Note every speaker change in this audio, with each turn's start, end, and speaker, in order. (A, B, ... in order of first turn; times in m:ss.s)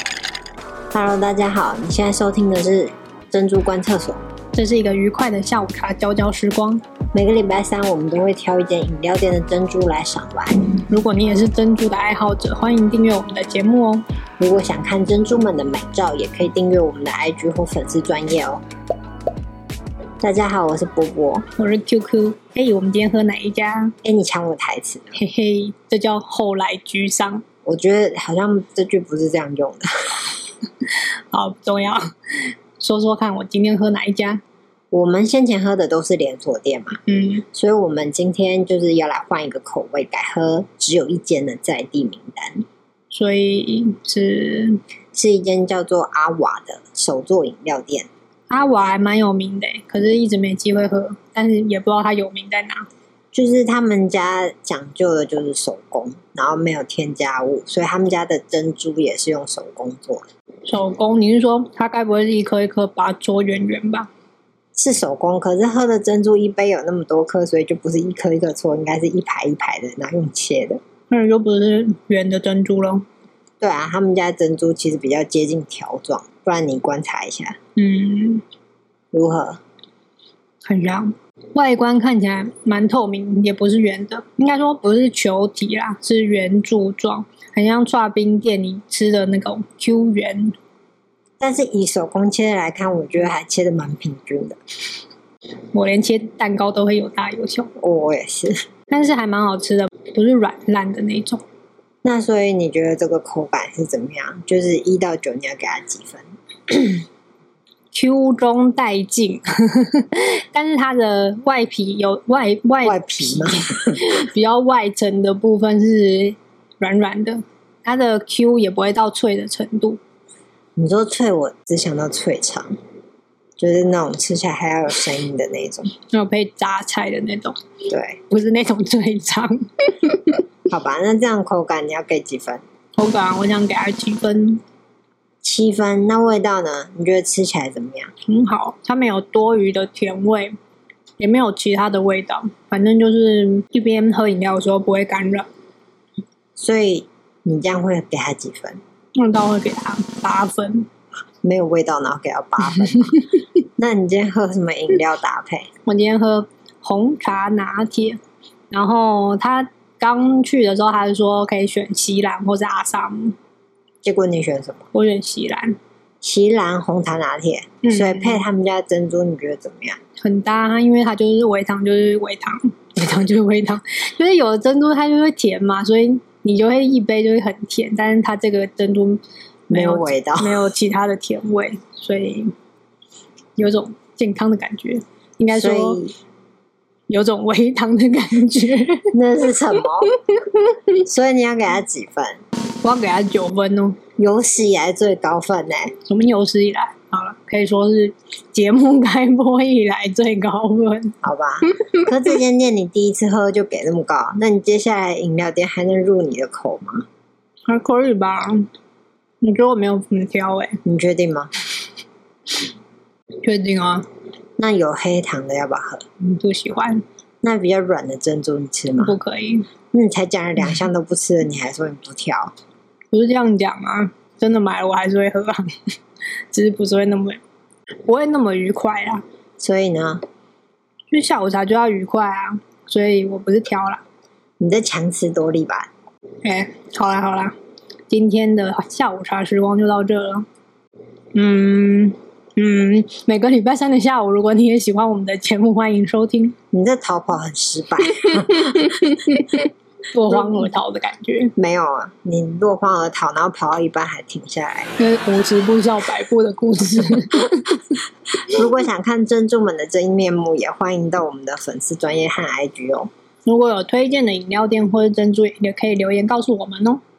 0:00.9-0:04.2 A
0:04.5-0:06.8 B
0:07.1-0:10.7 A
0:10.8-0:14.0 B
0:14.4-0:18.6 A
0:20.2-0:21.4 A
0:21.6-0:23.9 B
0:24.0-0:25.2 A
0:25.2-0:27.4 B
0:27.6-0:30.3 A
0:30.8-0:34.4 B
0:34.9-0:37.0 A
0:37.0-0:37.4 B
0:37.5-0:42.6 A
0:43.1-0:44.8 B
0:45.1-0:48.1 A
0:48.5-0:52.8 B
0:53.3-1:00.3 A
1:00.6-1:04.1 B
1:04.8-1:10.8 A
1:11.1-1:13.0 B
1:13.6-1:17.6 A
1:17.8-1:18.4 B
1:19.1-1:19.6 A
1:20.6-1:30.5 B
1:31.4-1:34.6 A
1:35.7-1:37.7 B
1:37.8-1:38.6 A
1:38.9-1:41.4 B
1:42.0-1:47.0 A
1:47.9-2:00.0 B
1:52.8-1:54.0 A
2:00.8-2:02.8 A
2:03.6-2:05.9 A
2:06.1-2:07.6 B
2:07.9-2:08.2 A
2:08.3-2:10.4 B
2:10.7-2:12.6 A
2:13.0-2:14.6 B
2:15.4-2:18.1 A
2:18.2-2:20.5 B
2:21.2-2:25.5 B
2:26.6-2:28.8 A
2:29.2-2:30.9 B
2:31.4-2:33.2 A
2:33.8-2:35.7 A
2:35.8-2:38.2 B
2:38.7-2:43.3 B
2:44.0-2:44.9 A
2:44.9-2:45.8 B
2:46.2-2:50.0 A
2:47.8-2:48.4 B
2:50.2-3:02.5 B
2:59.7-3:00.7 A
3:03.6-3:06.0 B
3:05.5-3:06.1 A
3:07.1-3:09.1 B
3:09.1-3:10.1 A
3:09.7-3:10.8 B
3:11.0-3:12.4 A
3:12.8-3:14.0 B
3:14.2-3:15.9 A
3:16.0-3:21.1 B
3:21.2-3:27.0 A
3:27.7-3:28.7 B
3:29.4-3:30.8 B
3:30.8-3:31.5 A
3:33.4-3:34.0 B
3:34.6-3:36.0 A
3:36.2-3:37.0 B
3:37.4-3:39.2 A
3:39.0-3:39.7 B
3:39.9-3:42.5 A
3:43.1-3:45.7 B
3:46.5-3:47.4 B
3:48.0-3:49.2 B
3:49.6-3:50.2 A
3:51.1-3:54.0 B
3:54.6-3:55.9 A
3:56.4-3:57.5 B
3:58.1-4:00.4 B
4:01.3-4:06.5 B
4:06.7-4:08.9 A
4:08.1-4:11.5 B
4:10.3-4:10.7 A
4:11.6-4:14.9 A
4:15.0-4:17.9 B
4:18.5-4:23.1 A
4:23.4-4:27.0 B